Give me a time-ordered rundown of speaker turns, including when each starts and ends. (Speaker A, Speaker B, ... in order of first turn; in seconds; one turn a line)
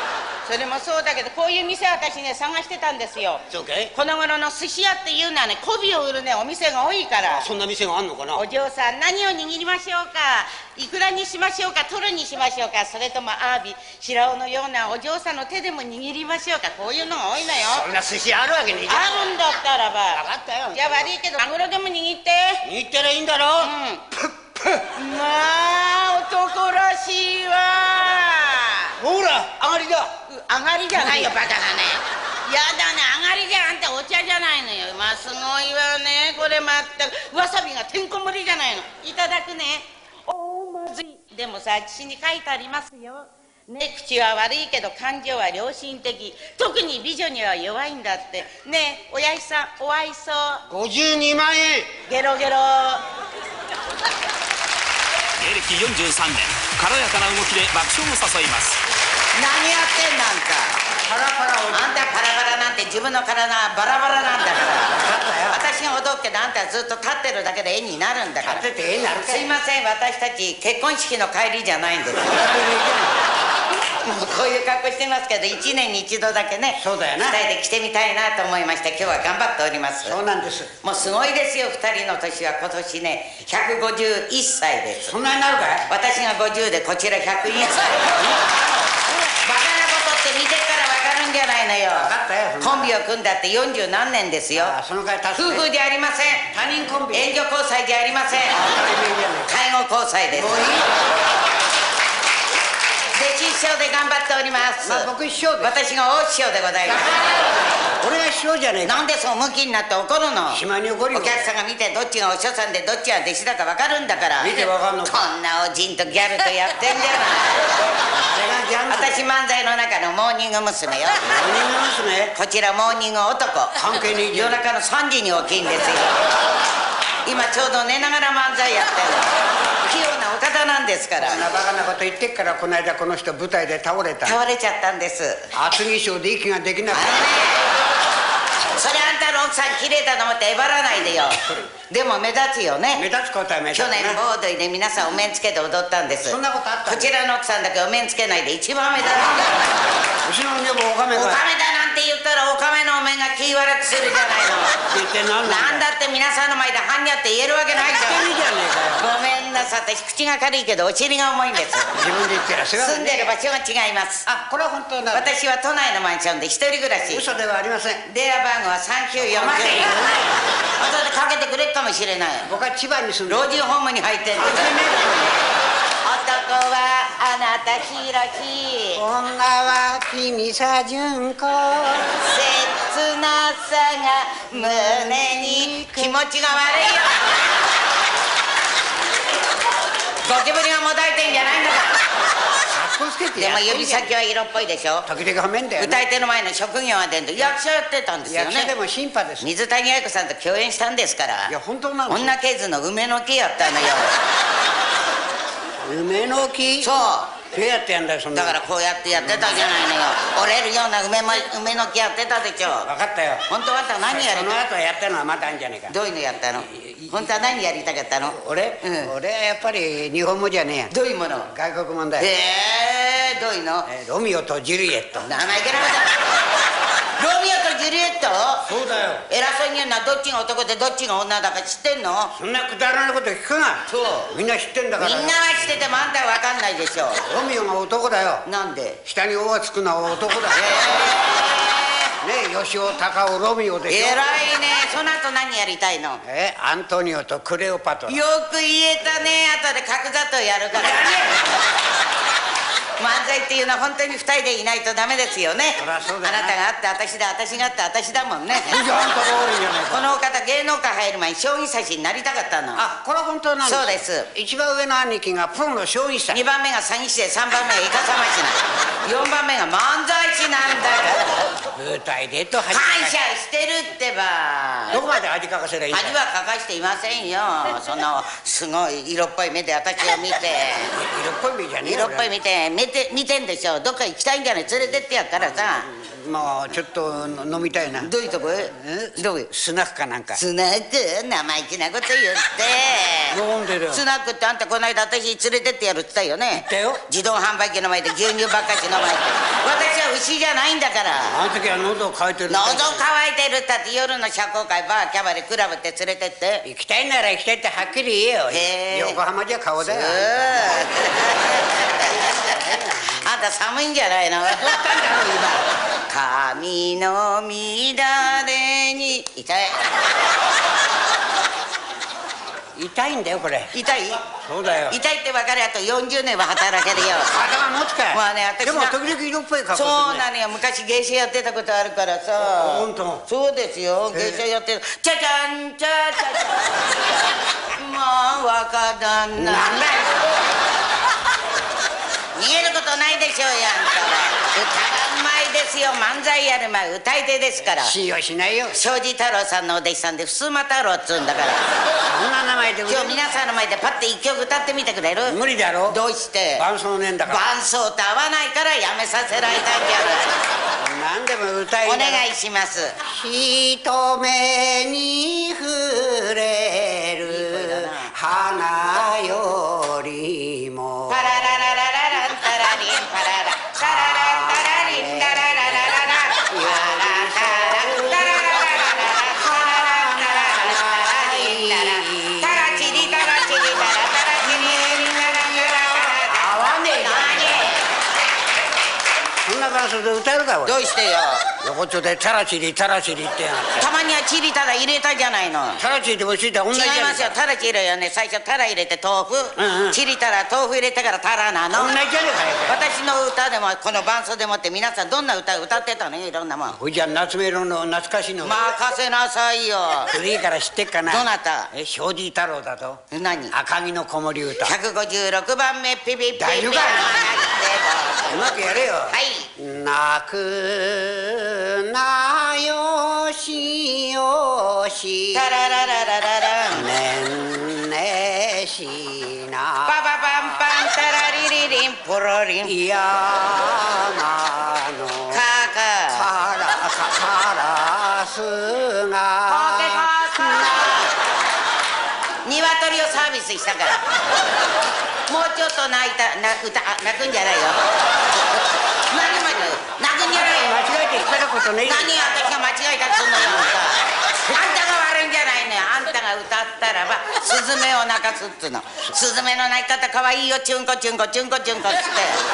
Speaker A: 0.5-3.4
Speaker B: 3.5-3.9
Speaker A: 3.9-7.5
Speaker B: 7.2-8.5
Speaker A: 8.4-17.9
Speaker B: 17.6-19.2
Speaker A: 18.9-20.2
Speaker B: 20.1-21.1
Speaker A: 20.7-22.6
Speaker B: 22.6-24.9
Speaker A: 23.6-24.0
Speaker A: 25.0-28.9
Speaker B: 29.0-30.1
Speaker A: 30.3-50.6
Speaker B: 30.9-31.4
Speaker B: 50.7-52.0
Speaker A: 52.1-53.0
Speaker C: 55.4-58.8
Speaker A: 59.4-60.8
Speaker B: 61.1-62.1
Speaker A: 61.7-65.0
Speaker B: 64.9-65.6
Speaker A: 65.5-68.6
Speaker B: 68.5-69.5
Speaker A: 69.2-72.3
Speaker B: 72.2-73.2
Speaker A: 74.0-80.2
Speaker B: 76.8-77.4
Speaker B: 80.0-80.7
Speaker A: 80.8-85.1
Speaker B: 85.0-85.9
Speaker A: 85.9-88.5
Speaker B: 88.0-89.2
Speaker A: 89.3-94.8
Speaker B: 91.9-92.9
Speaker B: 94.5-95.7
Speaker A: 95.4-96.5
Speaker B: 96.5-97.3
Speaker A: 97.1-98.6
Speaker B: 98.5-99.5
Speaker A: 99.5-100.7
Speaker B: 100.3-100.9
Speaker A: 103.2-105.1
Speaker B: 104.8-105.7
Speaker A: 105.6-107.5
Speaker B: 106.9-109.0
Speaker A: 108.8-110.6
Speaker B: 110.5-111.5
Speaker A: 111.1-117.7
Speaker B: 114.4-115.3
Speaker B: 118.1-119.2
Speaker A: 118.9-121.2
Speaker B: 121.2-122.3
Speaker A: 122.3-123.8
Speaker B: 123.8-124.6
Speaker A: 124.3-126.2
Speaker A: 127.3-131.4
Speaker B: 131.2-134.4
Speaker A: 134.2-135.5
Speaker B: 135.5-137.2
Speaker A: 136.9-137.6
Speaker A: 138.8-141.4
Speaker B: 141.4-141.7
Speaker A: 141.9-143.0
Speaker B: 142.9-144.2
Speaker A: 143.7-149.7
Speaker B: 146.2-147.1
Speaker B: 150.2-151.4
Speaker A: 151.2-154.8
Speaker B: 154.9-155.8
Speaker A: 155.4-158.2
Speaker B: 157.8-159.1
Speaker A: 159.0-161.9
Speaker B: 161.9-163.3
Speaker A: 162.8-164.2
Speaker B: 164.3-165.3
Speaker A: 165.1-167.3
Speaker B: 167.1-168.0
Speaker A: 168.1-169.9
Speaker B: 169.2-170.4
Speaker A: 170.8-172.5
Speaker B: 172.5-173.5
Speaker A: 173.3-174.8
Speaker B: 174.4-175.4
Speaker A: 176.0-179.0
Speaker B: 179.0-182.2
Speaker A: 182.2-187.2
Speaker B: 184.5-186.5
Speaker A: 190.3-192.0
Speaker B: 192.7-194.1
Speaker A: 193.4-195.1
Speaker B: 195.1-196.0
Speaker A: 195.8-198.7
Speaker B: 198.3-199.5
Speaker A: 199.4-201.5
Speaker B: 201.5-202.3
Speaker A: 202.1-204.2
Speaker B: 205.8-206.9
Speaker A: 206.8-207.3
Speaker B: 207.5-208.6
Speaker A: 208.3-212.9
Speaker B: 209.2-209.7
Speaker B: 212.8-213.5
Speaker A: 213.5-214.6
Speaker B: 214.0-215.9
Speaker A: 215.9-219.1
Speaker B: 216.7-217.1
Speaker B: 218.3-220.9
Speaker A: 220.9-221.5
Speaker B: 221.5-222.3
Speaker A: 222.2-223.8
Speaker B: 223.9-225.3
Speaker A: 225.2-226.2
Speaker A: 227.2-228.7
Speaker B: 228.7-229.2
Speaker A: 229.3-232.3
Speaker B: 232.3-235.4
Speaker A: 233.9-234.3
Speaker A: 235.0-237.2
Speaker B: 237.2-238.4
Speaker A: 238.5-239.0
Speaker B: 239.1-240.8
Speaker A: 240.5-242.1
Speaker B: 242.2-244.2
Speaker A: 243.9-246.2
Speaker B: 246.2-248.2
Speaker A: 248.1-251.2
Speaker B: 250.8-251.5
Speaker A: 253.0-258.8
Speaker B: 255.8-256.6
Speaker B: 258.6-260.1
Speaker A: 259.9-262.8
Speaker B: 262.8-266.4
Speaker A: 263.6-264.3
Speaker A: 266.3-271.4
Speaker B: 271.7-273.1
Speaker A: 272.7-275.0
Speaker B: 274.9-276.2
Speaker A: 275.9-280.9
Speaker B: 280.9-282.3
Speaker A: 281.8-285.9
Speaker B: 285.7-288.1
Speaker A: 288.0-289.5
Speaker B: 288.7-290.4
Speaker A: 290.4-293.4
Speaker B: 293.3-294.0
Speaker A: 293.9-301.4
Speaker B: 296.5-297.0
Speaker B: 301.3-303.0
Speaker A: 302.5-306.6
Speaker B: 306.6-310.6
Speaker A: 308.5-309.2
Speaker A: 309.8-312.7
Speaker B: 312.1-313.3
Speaker A: 313.2-314.8
Speaker B: 314.5-315.7
Speaker A: 316.1-319.8
Speaker B: 322.8-323.7
Speaker A: 323.7-324.2
Speaker B: 324.4-325.0
Speaker A: 324.9-327.3
Speaker B: 327.3-330.2
Speaker A: 328.1-328.9
Speaker A: 329.7-336.9
Speaker B: 332.4-333.2
Speaker B: 334.1-334.4
Speaker A: 337.7-340.1
Speaker B: 339.4-340.1
Speaker A: 342.4-347.9
Speaker B: 347.8-348.8
Speaker A: 348.8-351.6
Speaker B: 352.1-353.2
Speaker A: 352.9-355.4
Speaker B: 355.3-356.0
Speaker A: 355.9-356.6
Speaker B: 356.6-357.4
Speaker A: 357.3-360.3
Speaker B: 360.8-362.2
Speaker A: 361.9-362.9
Speaker B: 363.0-371.3
Speaker A: 367.3-368.1
Speaker A: 371.1-387.8
Speaker B: 373.8-375.6
Speaker B: 376.5-378.9
Speaker B: 379.4-383.6
Speaker B: 384.4-385.1
Speaker B: 386.0-387.7
Speaker B: 389.4-390.8
Speaker A: 390.7-391.5
Speaker B: 391.6-393.9
Speaker A: 393.8-395.8
Speaker B: 395.8-397.4
Speaker A: 396.7-401.9
Speaker B: 399.6-400.0
Speaker B: 401.7-402.8
Speaker A: 402.7-406.8
Speaker B: 406.7-408.6
Speaker A: 408.4-410.1
Speaker B: 410.1-413.0
Speaker A: 411.1-411.7
Speaker A: 413.1-413.5
Speaker B: 413.5-414.7
Speaker A: 414.6-419.5
Speaker B: 416.4-417.5
Speaker B: 418.3-425.6
Speaker A: 425.4-426.9
Speaker B: 426.7-430.6
Speaker A: 429.9-432.7
Speaker B: 432.6-435.4
Speaker A: 435.3-436.3
Speaker B: 436.1-440.9
Speaker A: 439.5-441.1
Speaker A: 442.5-444.0
Speaker A: 445.3-447.8
Speaker A: 449.1-450.7
Speaker B: 450.3-452.2
Speaker A: 451.9-462.4